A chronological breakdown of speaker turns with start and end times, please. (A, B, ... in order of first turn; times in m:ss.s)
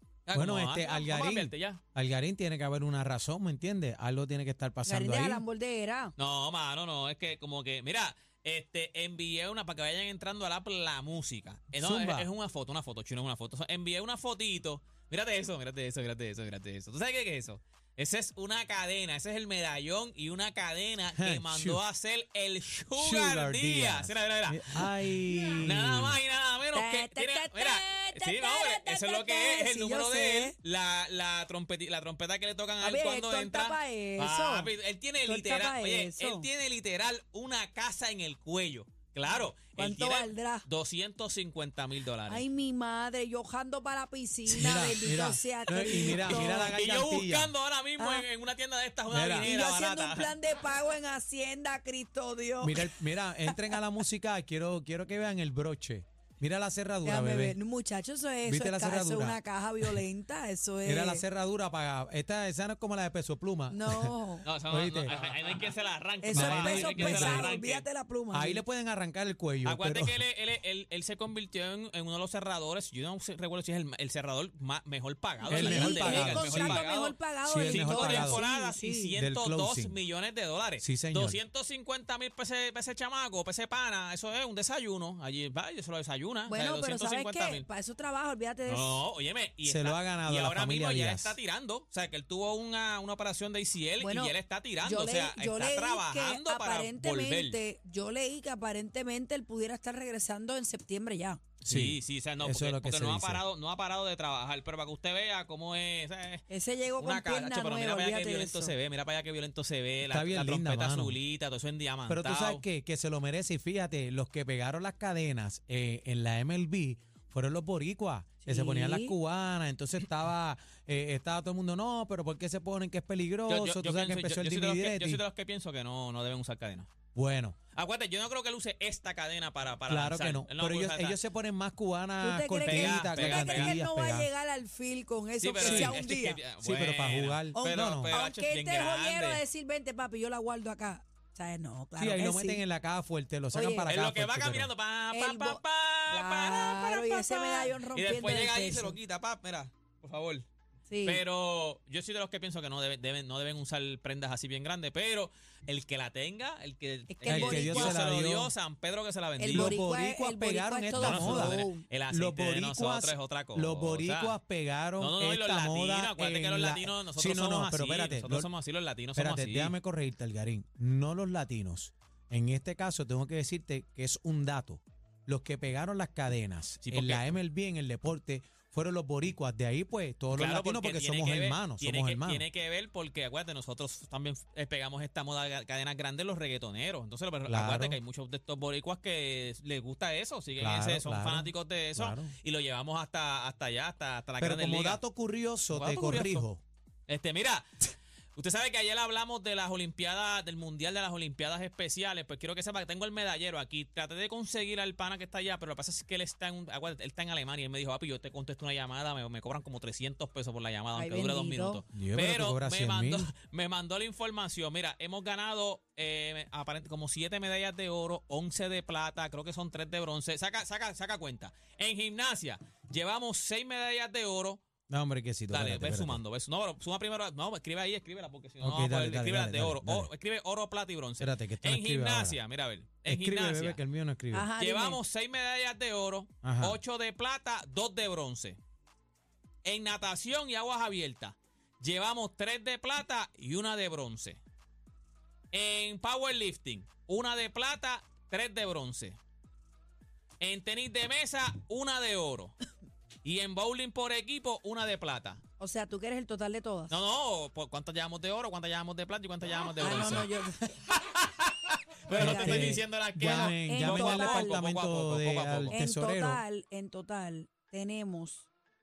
0:00.3-0:01.8 A
0:00.3-0:05.4 B
0:04.8-0:06.1 C
0:06.2-0:25.1 A
0:11.7-0:12.3 B
0:21.2-0:21.8 B
0:23.0-0:26.2 B
0:25.3-0:25.6 C
0:25.6-0:42.4 A
0:26.7-0:30.6 C
0:32.8-0:34.7 C
0:35.2-0:36.5 C
0:39.8-0:40.7 C
0:42.3-0:46.8 C
0:44.5-0:47.5 B
0:45.8-0:50.4 A
0:48.0-0:48.3 C
0:49.1-0:49.5 B
0:49.4-0:53.7 C
0:52.6-0:57.6 B
0:57.0-1:01.2 C
0:58.4-1:00.0 B
1:00.8-1:05.2 B
1:03.7-1:04.5 C
1:04.4-1:07.8 A
1:06.2-1:08.6 C
1:06.3-1:07.5 B
1:08.3-1:10.2 B
1:09.6-1:27.7 A
1:15.5-1:19.2 C
1:15.5-1:16.8 B
1:17.5-1:18.4 B
1:19.2-1:20.0 B
1:20.8-1:21.4 B
1:26.5-1:29.0 C
1:28.7-1:37.6 A
1:29.6-1:31.4 B
1:34.0-1:41.4 C
1:41.6-1:46.4 A
1:41.7-1:43.4 B
1:46.5-1:48.8 C
1:47.0-1:52.6 A
1:50.1-1:51.2 B
1:52.1-2:05.2 B
1:58.4-1:59.2 C
2:03.5-2:06.9 A
2:07.2-2:07.6 B
2:07.7-2:11.2 A
2:09.9-2:14.3 B
2:12.2-2:16.4 C
2:12.6-2:13.8 A
2:15.4-2:19.4 A
2:15.6-2:16.0 B
2:16.6-2:18.2 B
2:17.5-2:22.6 C
2:22.0-2:24.7 B
2:23.5-2:23.9 C
2:23.9-2:30.5 A
2:25.1-2:29.0 C
2:30.9-2:31.2 C
2:31.0-2:39.8 A
2:37.1-2:38.0 C
2:37.3-2:38.5 B
2:39.4-2:41.8 C
2:39.5-2:48.5 B
2:41.0-2:44.4 A
2:45.0-2:49.8 A
2:49.2-3:02.4 B
2:56.8-2:57.4 A
3:00.3-3:15.0 A
3:07.5-3:08.0 B
3:10.6-3:12.3 B
3:14.4-3:16.6 B
3:15.7-3:16.5 A
3:17.1-3:17.8 A
3:18.4-3:44.6 A
3:30.9-3:31.8 C
3:31.9-3:33.3 B
3:44.9-3:46.2 B
3:45.5-3:53.8 A
3:48.6-3:50.1 B
3:51.2-3:52.4 B
3:53.0-3:54.5 B
3:54.3-3:55.0 C
3:54.6-3:58.6 A
3:56.4-3:56.8 B
3:59.6-4:04.4 A
4:05.5-4:09.2 A
4:10.4-4:12.6 A
4:13.2-4:15.4 A
4:15.6-4:17.0 C
4:16.9-4:20.3 A
4:19.8-4:20.7 C
4:20.9-4:25.8 A
4:22.1-4:22.8 C
4:22.1-4:26.4 B
4:23.4-4:24.6 C
4:25.7-4:28.5 C